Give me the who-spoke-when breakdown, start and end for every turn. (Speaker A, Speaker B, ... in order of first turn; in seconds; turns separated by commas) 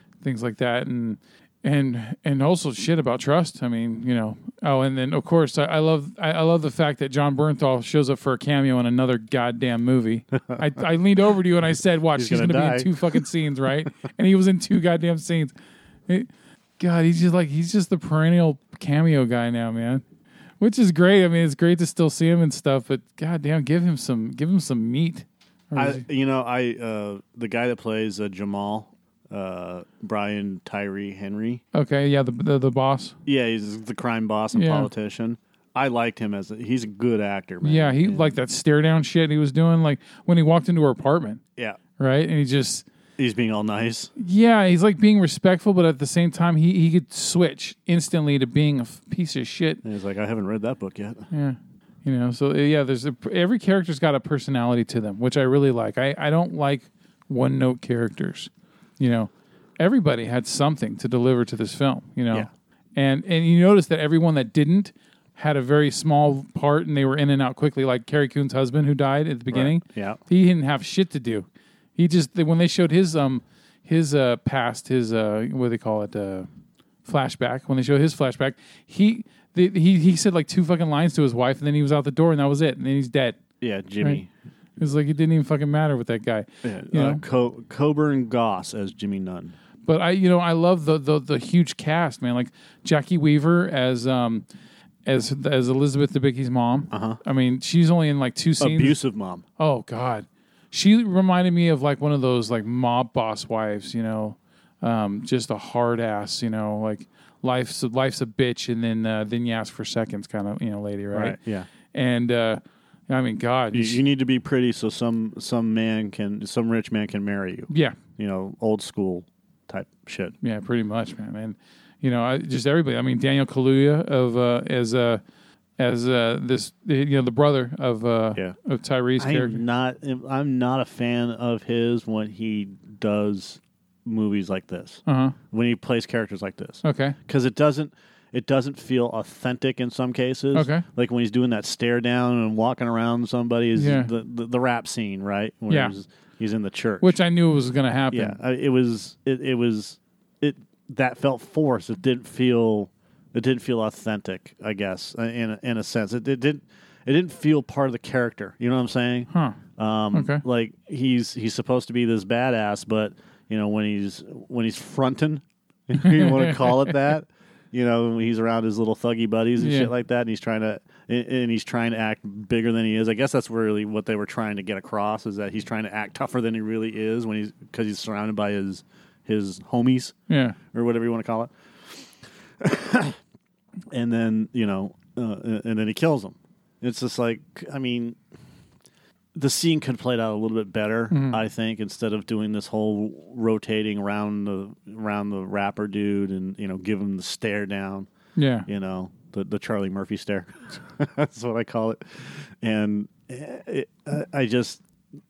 Speaker A: 0.2-15.5, Speaker B: 12.1-13.2, Speaker A: 16.1-20.0, Speaker A: 20.6-26.0, Speaker B: 25.7-31.6, Speaker A: 31.7-33.2, Speaker B: 33.2-38.3, Speaker A: 34.5-34.9, Speaker A: 37.6-41.4, Speaker A: 42.0-42.9, Speaker B: 43.2-44.1, Speaker A: 44.1-49.8, Speaker B: 49.8-51.3, Speaker A: 51.3-76.5, Speaker B: 69.5-70.2, Speaker A: 77.0-83.4, Speaker B: 83.6-84.3, Speaker A: 84.8-87.2, Speaker B: 86.6-89.5, Speaker A: 89.9-94.4, Speaker A: 95.0-99.0, Speaker B: 96.9-97.2, Speaker B: 98.6-99.4, Speaker A: 99.6-111.4, Speaker B: 111.1-111.7, Speaker A: 111.9-114.0, Speaker B: 113.7-120.3, Speaker A: 117.7-118.0, Speaker A: 120.4-125.2, Speaker A: 125.8-129.6, Speaker B: 129.2-147.2, Speaker A: 135.1-135.3, Speaker A: 136.8-137.2, Speaker A: 140.5-140.8, Speaker A: 143.7-144.1, Speaker A: 145.7-145.9, Speaker A: 147.0-148.4, Speaker B: 148.1-180.2, Speaker A: 159.3-159.6, Speaker A: 160.1-160.4, Speaker A: 166.0-166.9, Speaker A: 169.6-169.9, Speaker A: 180.3-180.6, Speaker B: 180.7-183.2, Speaker B: 183.9-188.2, Speaker B: 189.3-198.1, Speaker A: 191.1-191.4, Speaker A: 198.3-198.7, Speaker B: 198.7-204.8